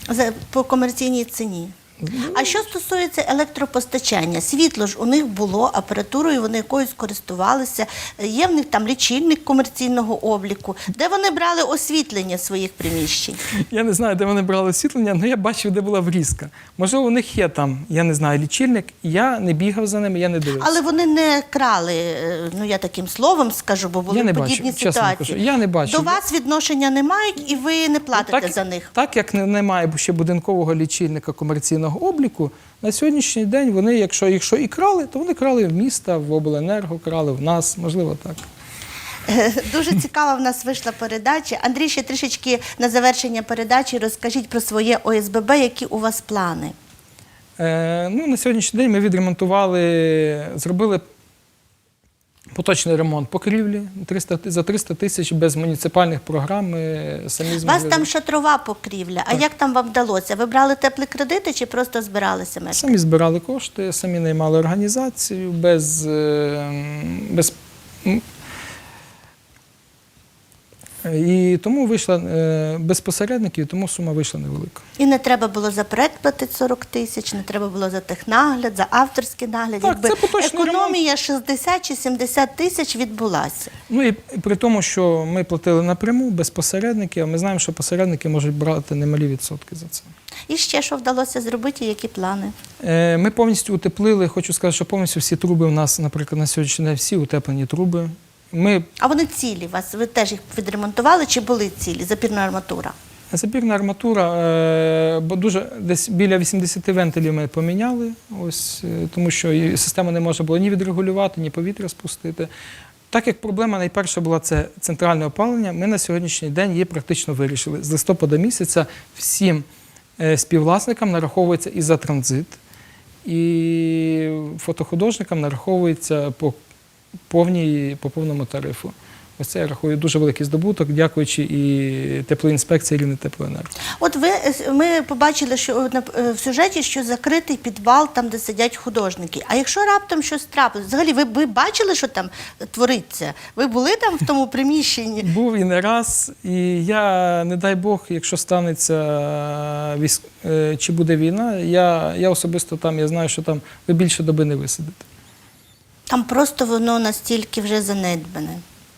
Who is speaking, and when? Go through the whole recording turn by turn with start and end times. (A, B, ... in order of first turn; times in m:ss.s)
0:00.1-0:01.7 A
0:02.0-0:02.6 B
0:02.3-0:13.4 A
0:13.6-0:20.7 B
0:20.6-0:28.9 A
0:24.1-0:26.2 B
0:28.1-0:38.5 B
0:39.3-0:46.7 A
0:47.6-0:51.0 B
0:52.5-0:58.1 B
0:57.6-1:02.9 A
1:02.7-1:08.2 B
1:11.0-1:14.8 B
1:15.0-1:23.7 A
1:19.8-1:21.0 B
1:23.9-1:30.1 B
1:30.5-1:32.5 A
1:32.8-1:38.9 B
1:39.0-1:42.9 A
1:43.3-1:52.5 B
1:53.1-1:59.6 B
2:00.2-2:02.6 B
2:03.2-2:06.6 B
2:07.3-2:13.7 B
2:14.0-2:25.3 A
2:25.2-2:35.0 B
2:36.1-2:38.6 A